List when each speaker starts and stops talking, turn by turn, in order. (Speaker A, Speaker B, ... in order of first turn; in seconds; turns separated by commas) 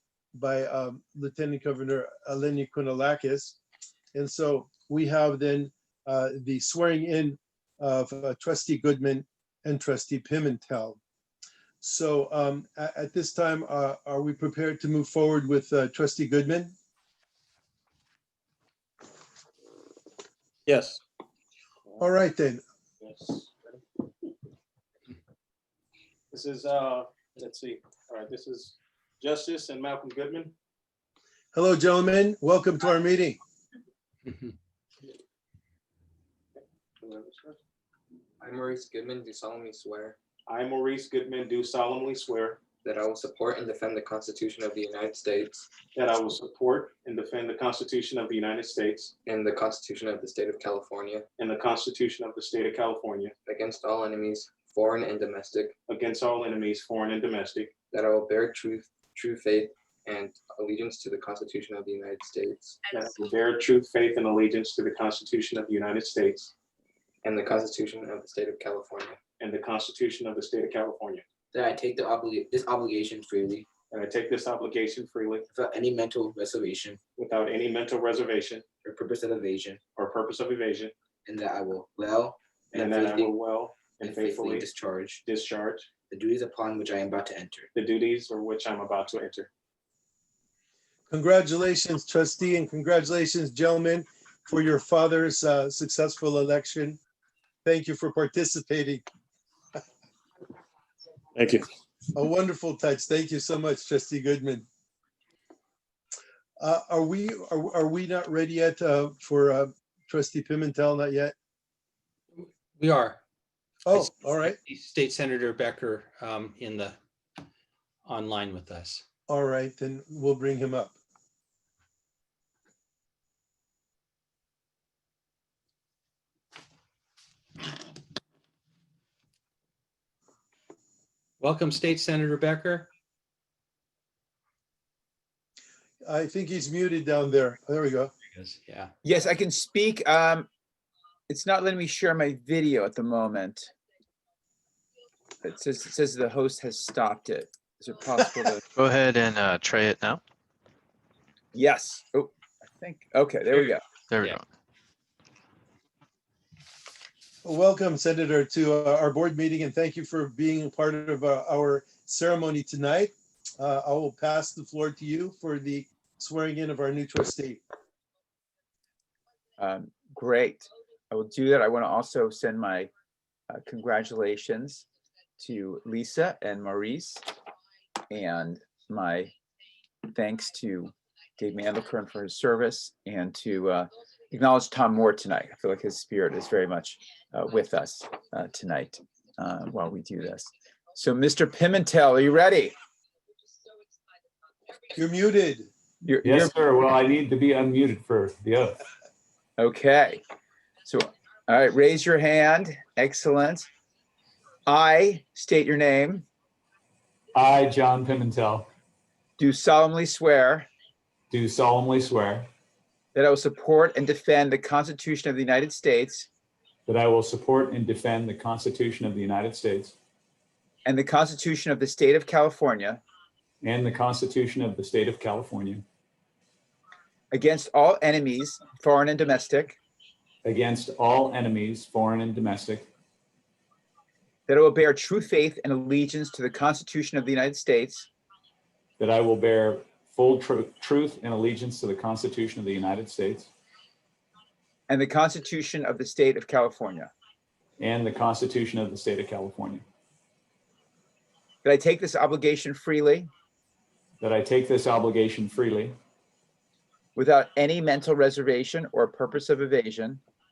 Speaker A: 0.3-3.6, Speaker A: 4.1-11.0, Speaker A: 11.8-16.7, Speaker B: 20.7-21.0, Speaker A: 22.0-22.6, Speaker B: 23.0-23.8, Speaker B: 26.3-30.5, Speaker A: 31.5-33.4, Speaker C: 34.3-34.5, Speaker B: 37.0-37.6, Speaker D: 38.4-40.2, Speaker B: 40.5-42.6, Speaker D: 42.8-45.7, Speaker B: 45.9-49.1, Speaker D: 49.2-51.3, Speaker B: 51.4-53.3, Speaker D: 53.5-55.8, Speaker B: 55.9-57.7, Speaker D: 57.9-63.1, Speaker B: 63.0-66.5, Speaker D: 67.2-69.2, Speaker B: 69.4-71.2, Speaker E: 71.5-73.7, Speaker B: 73.9-75.4, Speaker E: 75.5-77.0, Speaker B: 77.2-78.6, Speaker E: 78.8-79.8, Speaker B: 80.0-80.9, Speaker E: 81.2-83.3, Speaker B: 82.7-84.7, Speaker E: 84.0-85.2, Speaker B: 85.2-85.9, Speaker E: 86.1-87.7, Speaker B: 87.7-89.5, Speaker A: 91.1-97.0, Speaker A: 97.6-99.0, Speaker B: 101.3-101.6, Speaker A: 102.1-104.7, Speaker A: 106.6-111.3, Speaker C: 112.3-113.2, Speaker A: 113.8-114.6, Speaker C: 113.9-117.0, Speaker C: 118.0-119.0, Speaker A: 119.3-120.9, Speaker C: 131.4-132.9, Speaker A: 136.0-138.1, Speaker C: 138.3-138.9, Speaker F: 139.0-140.5, Speaker F: 141.3-143.7, Speaker F: 145.4-148.6, Speaker G: 148.7-150.2, Speaker F: 151.5-153.8, Speaker G: 153.6-154.4, Speaker A: 157.4-167.6, Speaker F: 169.6-172.9, Speaker F: 173.5-174.8, Speaker F: 175.4-177.2, Speaker F: 178.1-179.3, Speaker F: 180.1-192.8, Speaker A: 194.9-195.7, Speaker F: 196.0-196.5, Speaker H: 196.2-198.8, Speaker F: 199.6-200.2, Speaker F: 200.8-203.7, Speaker F: 204.7-206.3, Speaker H: 207.3-208.7, Speaker F: 209.4-210.7, Speaker H: 211.3-212.5, Speaker F: 213.1-216.3, Speaker H: 216.9-219.9, Speaker F: 220.8-223.0, Speaker H: 223.6-225.8, Speaker F: 227.3-229.8, Speaker H: 230.4-232.9, Speaker F: 234.5-238.1, Speaker H: 239.0-243.5, Speaker F: 244.9-247.1, Speaker H: 247.8-249.8, Speaker F: 251.6-253.3, Speaker H: 254.2-256.0, Speaker F: 257.1-260.2